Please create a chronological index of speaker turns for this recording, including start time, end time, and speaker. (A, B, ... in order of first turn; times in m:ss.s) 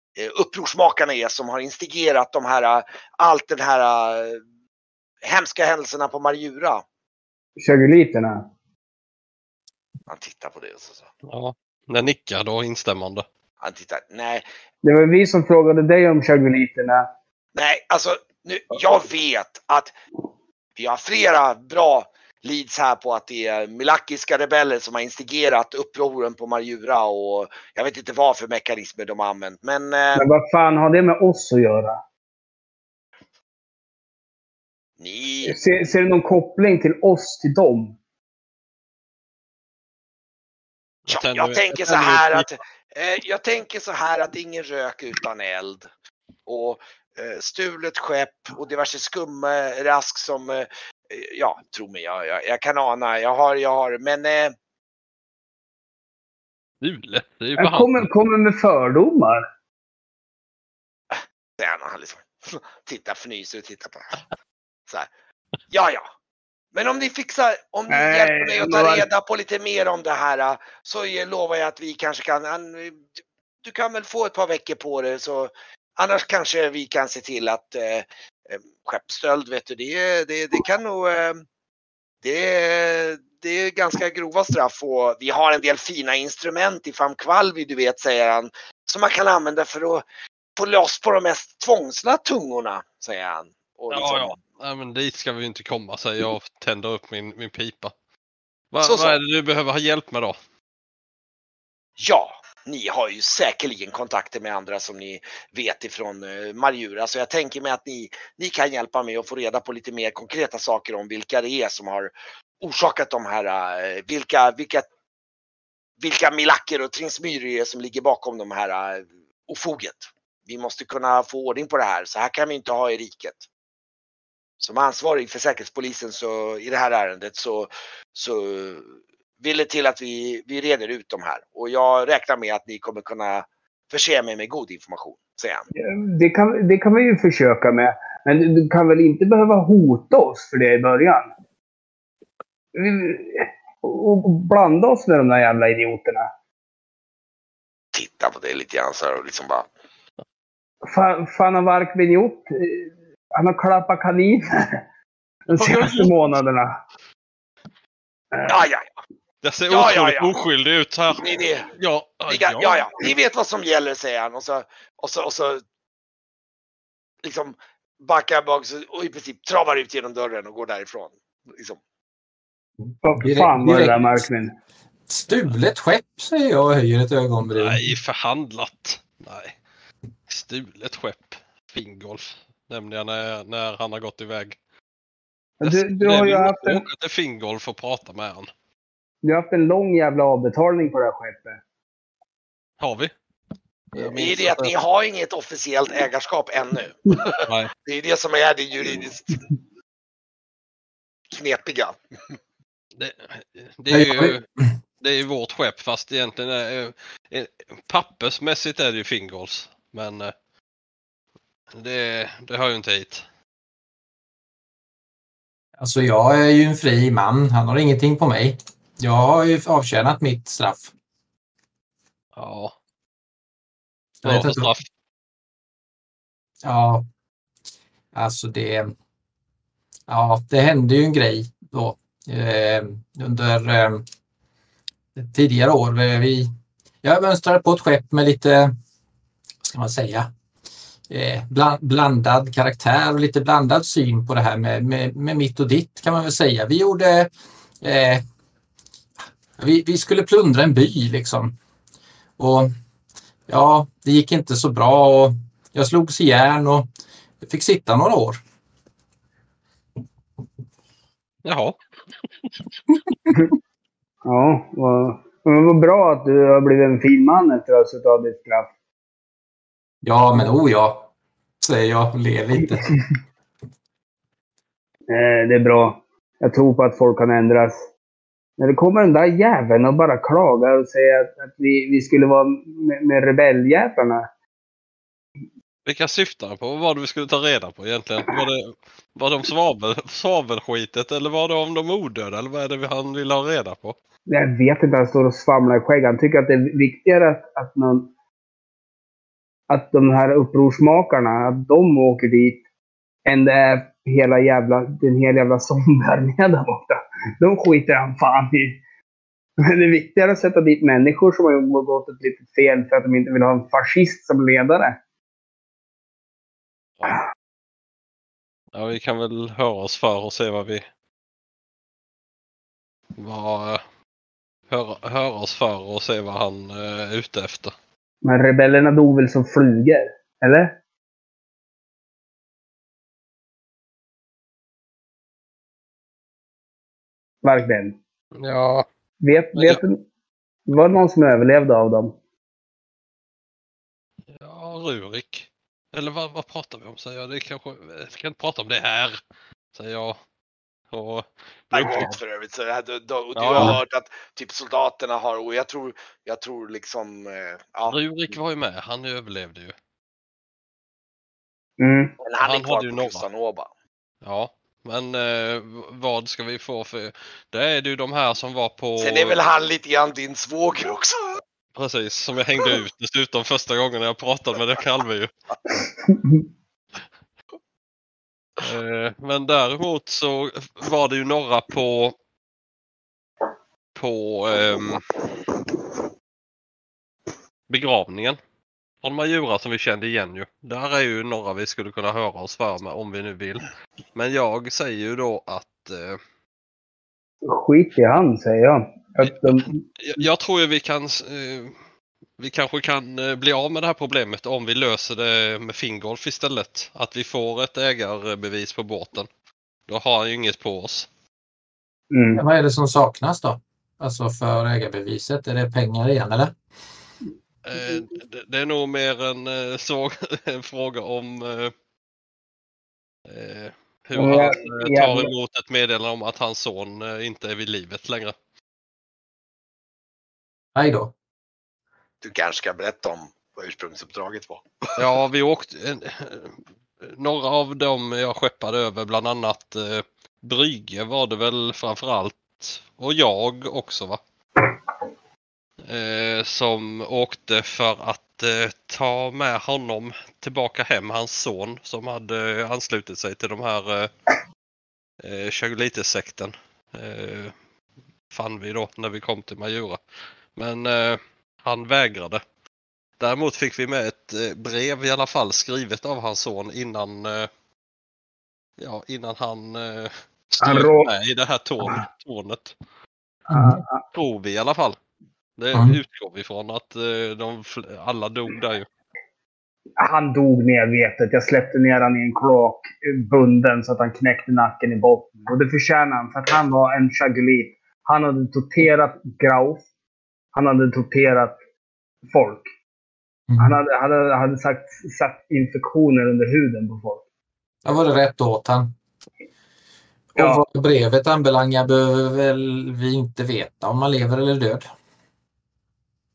0:00.2-0:04.4 A
0:05.2-0:06.8 A
0:07.6-0:08.5 B
0:10.1-0:11.1 A
0:11.2-0:13.2 C
0:13.6-0:14.4 A
0:14.8-0:17.0 B
0:17.5-0:19.9 A
0:20.8-0:30.3 A
0:30.2-0:32.0 B
0:35.0-0:35.6 A
0:35.4-0:38.0 B
0:41.1-0:42.5 C
0:41.1-0:45.9 A
0:46.5-0:54.5 A
0:56.8-0:58.0 C
0:57.6-0:59.4 B
1:01.1-1:04.2 A
1:05.7-1:06.1 A
1:06.7-1:13.0 A
1:07.9-1:09.0 B
1:13.6-1:21.4 A
1:22.2-1:30.0 A
1:30.6-1:34.4 A
1:33.9-1:37.9 C
1:38.7-1:40.4 C
1:38.8-1:39.2 A
1:42.0-1:54.9 A
1:56.0-2:03.4 A
2:04.6-2:15.6 A
2:15.7-2:21.3 B
2:22.7-2:26.3 B
2:27.9-2:29.7 A
2:30.9-2:34.8 B
2:35.5-2:36.7 B
2:35.6-2:36.1 C
2:38.3-2:38.6 B
2:38.4-2:38.9 A
2:39.4-2:42.8 C
2:39.7-2:40.3 A
2:41.2-2:41.7 A
2:42.3-2:45.6 A
2:47.2-2:51.8 A
2:53.0-2:54.5 B
2:53.2-2:54.3 D
2:55.1-2:57.8 D
2:57.5-2:59.6 C
3:00.3-3:04.6 C
3:05.6-3:06.8 B
3:05.6-3:08.5 C
3:09.2-3:11.6 B
3:12.8-3:13.1 C
3:13.9-3:14.7 C
3:14.1-3:19.4 A
3:17.4-3:17.7 C
3:21.3-3:21.9 A
3:23.0-3:24.4 C
3:23.9-3:24.4 D
3:25.0-3:30.3 C
3:31.7-3:33.2 C
3:35.8-3:40.9 D
3:42.4-3:42.7 C
3:44.2-3:44.7 D
3:44.2-3:44.8 C
3:46.6-3:47.0 D
3:48.1-3:48.9 D
3:50.1-3:54.0 D
3:55.2-3:56.5 D
3:57.0-3:58.7 D
3:59.6-4:00.3 D
4:01.1-4:07.3 D
4:07.8-4:08.2 D
4:09.6-4:11.5 D
4:12.4-4:12.7 D
4:13.5-4:16.9 D
4:17.4-4:18.4 D
4:21.4-4:22.5 C
4:24.2-4:28.7 B
4:30.0-4:31.1 D
4:31.6-4:32.9 D
4:32.6-4:33.0 B
4:35.1-4:37.8 B
4:38.6-4:44.3 B
4:45.8-4:54.0 C
4:54.3-4:58.1 B
4:59.7-5:02.6 B
5:03.3-5:08.8 B
5:09.6-5:15.0 B
5:18.7-5:20.8 C
5:23.2-5:23.8 C
5:24.7-5:27.7 C
5:28.2-5:30.8 B
5:37.4-5:38.0 B
5:38.4-5:38.8 C
5:39.2-5:40.0 B
5:39.5-5:39.8 C
5:40.7-5:42.2 B
5:44.3-5:49.2 C
5:49.7-5:50.2 C
5:50.9-5:52.1 C
5:51.7-5:58.0 A
5:53.4-5:53.8 C
5:57.9-5:59.7 C
6:01.8-6:02.1 B
6:02.2-6:03.7 A
6:02.4-6:03.2 C
6:04.2-6:09.4 C
6:09.0-6:11.4 A
6:11.7-6:15.3 C
6:16.0-6:16.4 B
6:18.6-6:22.1 C
6:23.9-6:25.0 C
6:27.7-6:28.4 C
6:29.0-6:36.2 C
6:37.4-6:40.2 B
6:39.2-6:41.7 C
6:42.4-6:49.3 C
6:49.9-6:51.1 C
6:52.1-6:52.4 B
6:52.3-6:56.5 D
6:57.6-7:01.7 C
7:03.3-7:08.3 C
7:04.2-7:05.3 B
7:10.7-7:11.1 D
7:12.2-7:15.0 A
7:15.0-7:24.2 C
7:25.9-7:34.1 C
7:35.2-7:37.5 C
7:38.3-7:40.0 C
7:40.6-7:42.4 C
7:43.2-7:47.5 C
7:48.8-7:52.7 C
7:50.6-7:51.1 B
7:53.5-7:54.0 B
7:53.5-7:53.8 D
7:54.1-7:55.0 C
7:55.6-7:58.9 C
7:55.7-7:56.0 D
8:00.0-8:09.8 B
8:10.5-8:11.6 B
8:12.3-8:12.7 B
8:13.5-8:13.8 D
8:13.6-8:17.2 B
8:17.8-8:18.9 D
8:20.3-8:24.9 D
8:20.4-8:20.6 B